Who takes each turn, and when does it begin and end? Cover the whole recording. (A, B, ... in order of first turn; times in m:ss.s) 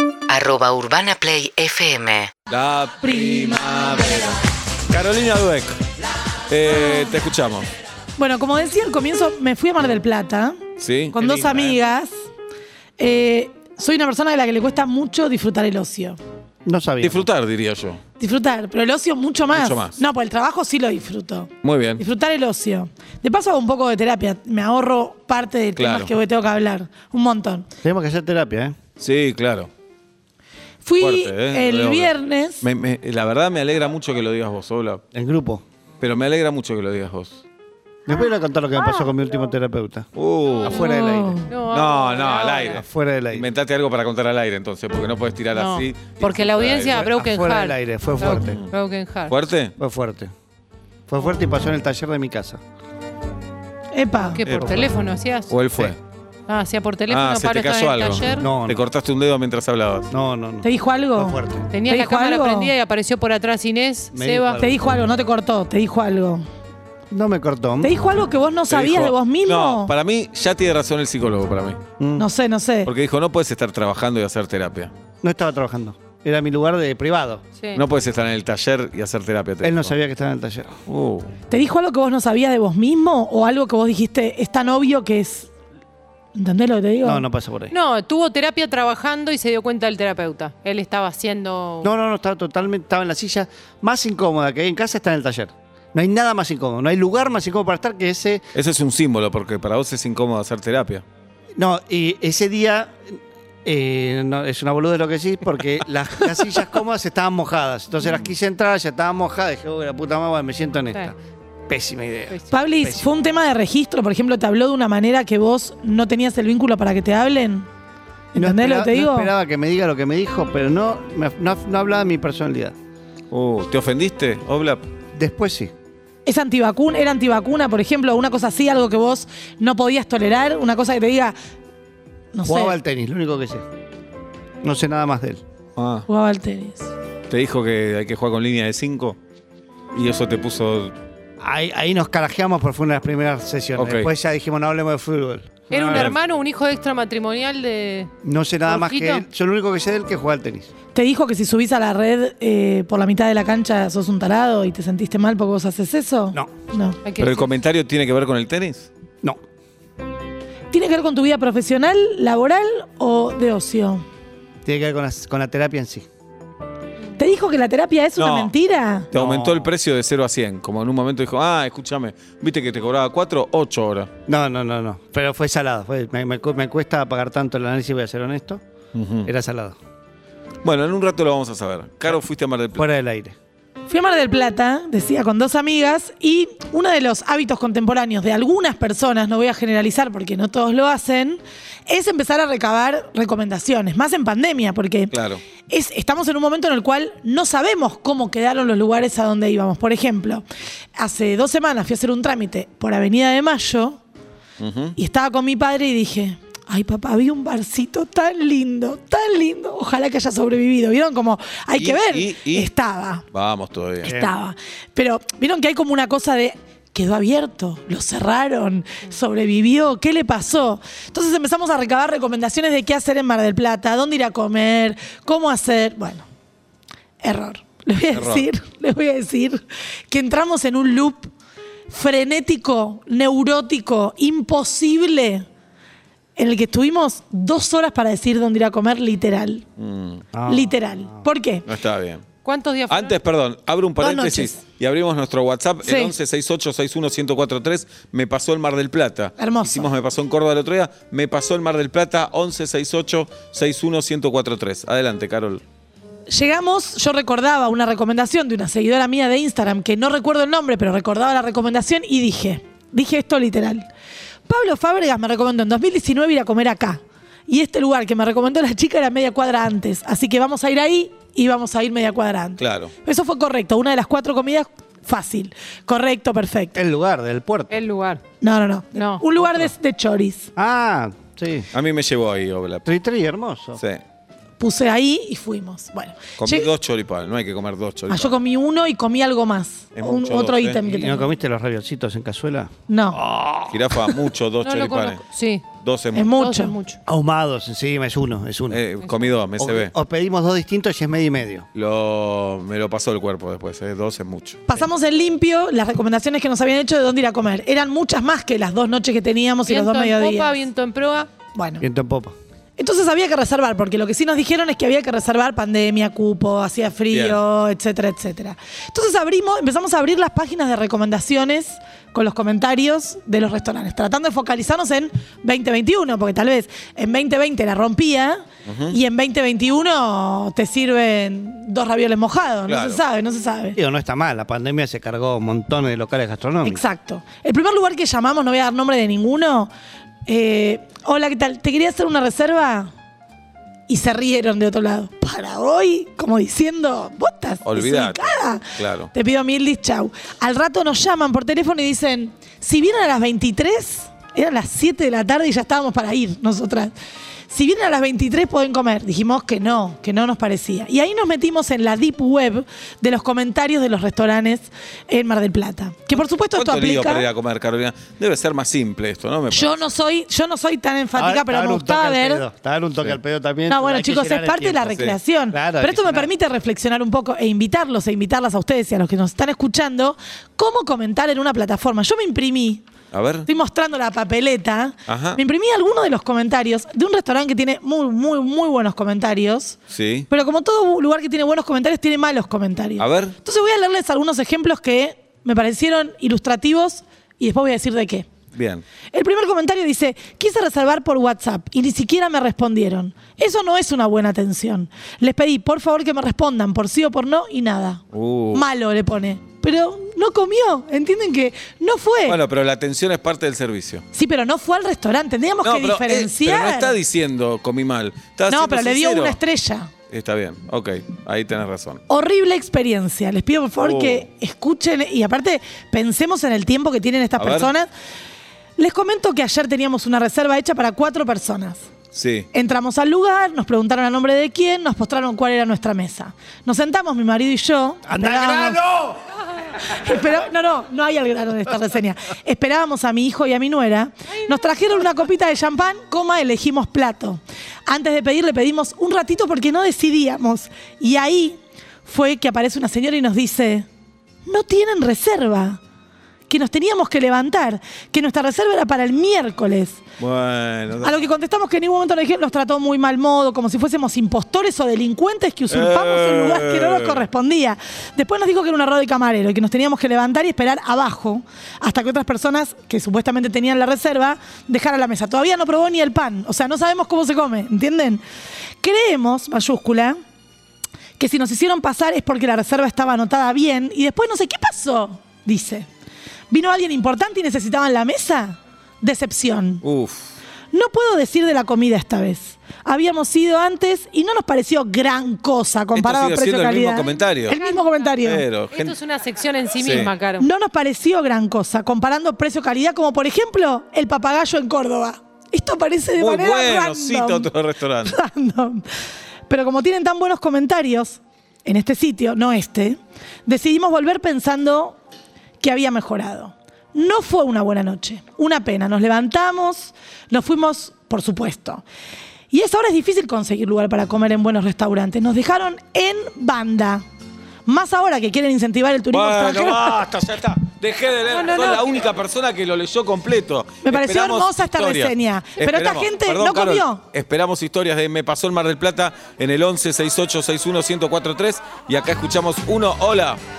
0:00.3-0:02.3 A
0:02.5-0:04.4 B
0:03.0-0:03.9 C
0:04.9-0:05.8 B
0:06.5-0:07.7 B
0:08.2-0:10.6 C
0:10.8-0:11.8 B
0:11.1-0:12.1 C
0:13.0-0:16.2 C
0:16.6-0:17.2 D
0:17.0-0:18.0 B
0:18.2-0:27.7 C
0:19.5-0:20.0 B
0:21.6-0:22.0 B
0:25.8-0:26.1 B
0:27.8-0:28.8 D
0:29.0-0:29.7 B
0:30.8-0:32.6 C
0:31.0-0:35.0 B
0:35.1-0:35.6 D
0:36.0-0:37.4 B
0:38.1-0:40.1 D
0:40.1-0:40.8 B
0:40.6-0:41.4 D
0:40.8-0:41.4 C
0:41.5-0:42.8 E
0:41.7-0:47.0 B
0:42.7-0:43.5 D
0:45.5-0:49.3 E
0:47.0-0:48.6 D
0:49.3-0:49.7 B
0:49.8-0:50.3 D
0:51.1-0:52.6 D
0:53.9-0:54.4 C
0:54.3-0:55.5 E
0:54.5-0:54.8 B
0:54.5-0:54.9 D
0:55.5-0:56.0 B
0:56.5-0:58.4 E
0:57.1-1:00.1 B
0:58.4-0:58.8 D
1:00.1-1:01.6 D
1:00.6-1:02.7 C
1:01.7-1:04.6 E
1:04.1-1:05.0 D
1:04.6-1:06.4 C
1:07.1-1:07.9 D
1:07.8-1:09.9 C
1:08.7-1:11.8 B
1:12.0-1:12.3 D
1:12.2-1:12.9 C
1:12.8-1:14.9 B
1:15.2-1:17.4 D
1:17.7-1:19.9 B
1:19.6-1:20.8 D
1:20.9-1:21.3 B
1:21.5-1:25.5 C
1:26.3-1:27.2 C
1:27.0-1:27.7 D
1:27.7-1:31.9 E
1:31.8-1:38.4 D
1:38.5-1:41.0 B
1:41.6-1:51.2 D
1:51.7-1:53.0 D
1:52.5-1:57.7 C
1:58.3-1:59.3 C
1:58.4-2:02.7 D
2:03.3-2:04.8 B
2:05.1-2:05.7 D
2:06.2-2:11.4 C
2:12.3-2:12.8 C
2:12.4-2:13.6 D
2:14.6-2:15.4 D
2:15.8-2:16.1 B
2:16.1-2:16.9 C
2:17.3-2:19.2 B
2:19.9-2:20.9 B
2:21.4-2:26.1 D
2:23.8-2:24.1 B
2:25.7-2:28.1 E
2:25.8-2:26.1 B
2:28.2-2:30.7 D
2:28.7-2:29.2 E
2:30.9-2:37.0 C
2:37.0-2:37.5 E
2:37.2-2:38.9 B
2:40.7-2:44.0 C
2:44.6-2:46.0 D
2:47.2-2:49.1 C
2:48.2-2:48.5 B
2:49.1-2:54.1 B
2:49.1-2:49.7 D
2:54.3-2:58.6 D
2:58.9-2:59.3 B
2:59.2-2:59.8 D
3:00.6-3:02.8 B
3:02.8-3:03.3 D
3:03.9-3:15.1 C
3:15.1-3:15.4 B
3:15.7-3:20.4 C
3:21.0-3:24.0 C
3:24.6-3:24.9 B
3:25.0-3:33.2 C
3:31.8-3:32.7 B
3:33.3-3:34.1 B
3:34.0-3:34.3 D
3:34.0-3:46.2 C
3:47.2-3:51.3 C
3:48.1-3:48.5 B
3:51.9-3:55.4 C
3:56.4-3:59.6 C
3:59.8-4:00.2 B
4:00.3-4:01.2 D
4:00.4-4:01.6 C
4:01.7-4:02.3 B
4:02.4-4:03.2 E
4:02.9-4:15.6 B
4:04.0-4:04.6 C
4:05.8-4:06.1 C
4:09.4-4:09.9 C
4:16.3-4:23.8 C
4:24.5-4:36.8 C
4:32.6-4:32.9 B
4:36.7-4:37.7 D
4:37.7-4:38.2 E
4:38.4-4:40.5 C
4:38.9-4:39.6 E
4:40.6-4:41.7 D
4:41.7-4:42.9 B
4:42.8-4:43.8 D
4:44.6-4:46.7 C
4:46.4-4:48.3 B
4:48.1-4:51.2 C
4:50.0-4:50.8 B
4:50.8-4:54.2 D
4:52.9-4:53.2 C
4:53.7-4:55.2 B
4:54.6-4:55.6 E
4:55.8-4:56.3 B
4:56.1-4:56.8 C
4:56.4-4:57.0 E
4:57.1-4:58.8 D
4:58.7-4:59.9 B
4:59.6-5:01.6 D
5:01.7-5:04.9 B
5:04.7-5:10.6 C
5:09.7-5:11.3 E
5:11.5-5:11.8 C
5:11.8-5:12.3 D
5:12.8-5:33.8 C
5:17.1-5:17.4 B
5:28.7-5:29.0 B
5:32.7-5:33.0 B
5:33.8-5:36.8 D
5:36.6-5:39.7 C
5:40.2-5:42.9 C
5:43.9-5:56.9 C
5:47.6-5:49.1 B
5:57.5-6:07.2 C
6:06.5-6:09.9 B
6:09.5-6:12.4 C
6:11.2-6:16.3 D
6:13.7-6:22.8 C
6:23.1-6:23.5 B
6:23.4-6:29.8 C
6:25.1-6:25.4 B
6:29.9-6:30.3 B
6:30.3-6:38.3 C
6:33.0-6:33.4 B
6:38.5-6:38.8 B
6:39.1-6:48.0 C
6:48.1-6:48.6 B
6:48.5-6:52.4 C
6:52.3-6:54.0 B
6:54.1-6:56.9 C
6:55.6-6:59.4 B
6:58.5-6:59.9 C
7:00.1-7:02.0 B
7:02.1-7:07.9 C
7:03.8-7:04.2 B
7:07.4-7:07.7 B
7:08.8-7:11.8 C
7:12.1-7:12.5 B
7:12.5-7:18.8 C
7:18.0-7:19.1 D
7:19.8-7:33.8 C
7:34.4-7:35.8 C
7:36.5-7:40.0 C
7:40.2-7:41.2 B
7:41.0-7:58.2 C
7:45.7-7:47.3 B
7:58.8-8:00.2 C
8:01.2-8:05.9 C
8:06.5-8:09.8 C
8:09.8-8:10.3 B
8:10.7-8:18.4 C
8:15.9-8:17.6 B
8:17.6-8:18.1 E
8:18.2-8:19.0 B
8:18.7-8:20.5 E
8:19.8-8:20.1 B
8:20.4-8:27.5 C
8:26.2-8:28.2 B
8:28.0-8:28.8 C
8:29.5-8:35.0 C
8:35.6-8:41.8 C
8:42.5-8:47.0 C
8:47.6-8:50.0 C
8:49.1-9:03.4 B
8:51.3-8:51.8 C
8:53.8-8:57.0 C